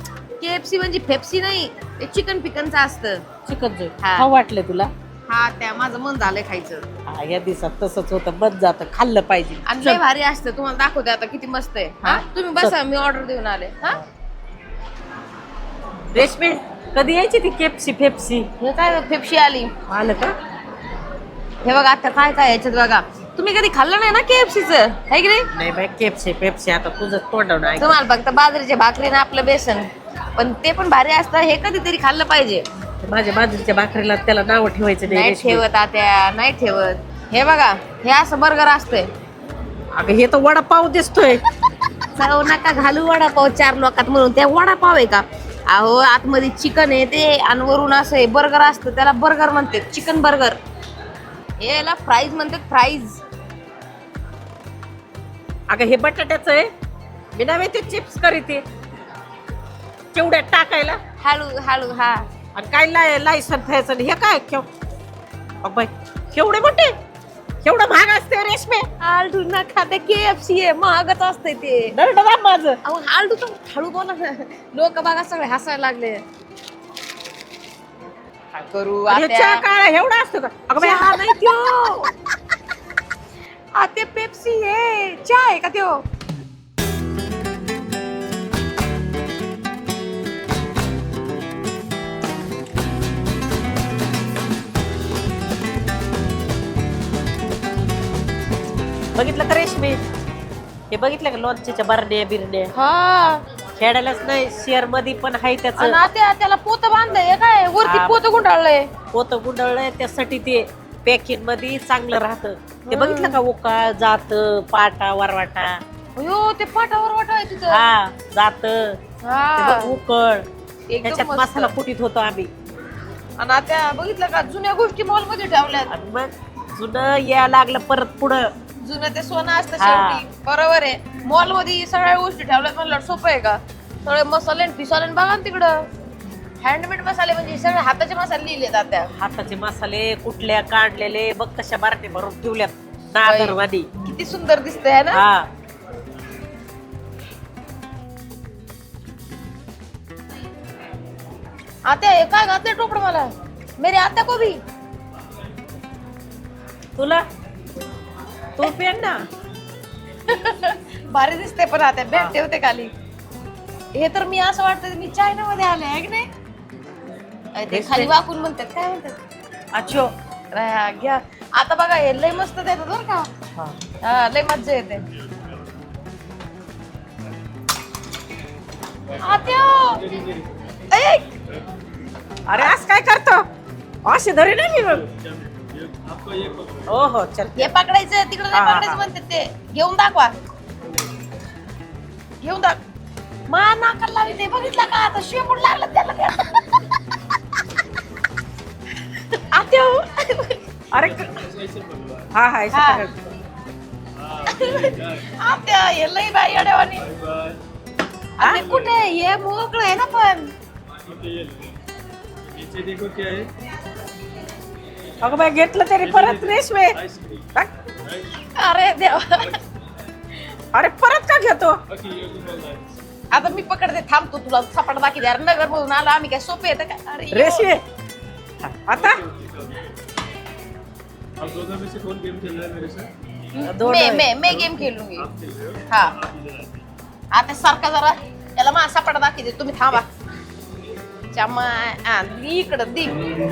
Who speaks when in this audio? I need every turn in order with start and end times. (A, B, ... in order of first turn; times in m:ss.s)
0:00.4-0:03.2 A
0:03.4-0:04.9 B
0:04.0-0:04.3 A
0:05.3-0:06.9 A
0:07.1-0:10.0 B
0:09.7-0:14.0 A
0:12.0-0:12.8 B
0:16.1-0:18.5 B
0:18.6-0:19.7 A
0:19.9-0:20.3 B
0:21.6-0:25.5 A
0:25.5-0:28.0 B
0:27.8-0:29.9 A
0:30.4-0:32.6 A
0:33.0-0:35.6 B
0:35.1-0:39.1 A
0:40.0-0:41.4 B
0:42.2-0:50.6 A
0:51.6-0:53.2 A
0:55.7-0:56.7 B
0:57.4-0:58.6 B
1:00.1-1:01.0 B
1:01.2-1:02.2 A
1:02.6-1:04.7 B
1:05.6-1:06.9 B
1:07.6-1:08.9 B
1:09.0-1:11.9 A
1:11.9-1:12.8 B
1:12.8-1:16.2 A
1:18.5-1:19.6 A
1:19.1-1:22.1 B
1:20.8-1:21.1 A
1:23.8-1:26.0 A
1:39.2-1:40.0 B
1:40.9-1:42.7 B
1:42.8-1:43.4 A
1:43.8-1:46.0 B
1:45.8-1:48.9 A
1:47.8-1:48.2 B
1:49.1-1:55.8 B
1:52.9-1:53.4 A
1:56.2-1:57.8 A
1:57.7-1:59.0 B
1:59.2-2:00.0 A
1:59.6-2:00.5 B
2:00.9-2:01.8 A
2:01.0-2:02.5 B
2:03.4-2:05.9 A
2:05.9-2:08.5 B
2:08.8-2:15.9 A
2:09.8-2:10.2 B
2:16.6-2:19.1 A
2:19.2-2:23.9 B
2:23.2-2:25.2 A
2:25.1-2:25.5 B
2:31.9-2:34.6 A
2:37.0-2:37.2 B
2:38.6-2:39.2 B
2:40.3-2:42.9 A
2:44.0-2:46.3 A
2:47.6-2:49.2 A
2:47.7-2:48.1 B
2:49.7-2:50.1 B
2:50.5-2:53.3 A
2:54.0-2:55.0 A
2:59.2-3:00.0 A
2:59.2-3:00.8 C
3:00.9-3:01.3 A
3:02.5-3:03.4 B
3:04.0-3:05.0 B
3:04.8-3:07.2 C
3:06.9-3:07.7 B
3:07.6-3:10.4 A
3:08.5-3:09.0 B
3:12.4-3:12.8 A
3:13.5-3:16.8 A
3:19.5-3:20.6 A
3:20.9-3:21.3 B
3:20.9-3:22.3 C
3:22.3-3:23.1 B
3:22.7-3:23.0 A
3:24.2-3:25.3 C
3:24.5-3:27.0 A
3:26.9-3:27.6 C
3:28.4-3:28.6 B
3:28.4-3:30.5 A
3:28.4-3:29.0 C
3:31.1-3:31.8 C
3:32.5-3:33.5 C
3:35.2-3:37.0 B
3:36.0-3:38.4 C
3:38.6-3:39.6 A
3:40.7-3:41.8 B
3:41.9-3:43.0 C
3:43.3-3:47.7 A
3:47.3-3:47.8 B
3:48.6-3:49.2 B
3:48.9-3:49.9 C
3:51.4-3:53.1 C
3:53.6-3:55.3 A
3:53.7-3:54.3 B
3:54.4-3:56.8 C
3:55.9-3:56.2 A
3:57.3-4:00.1 A
4:01.3-4:03.2 A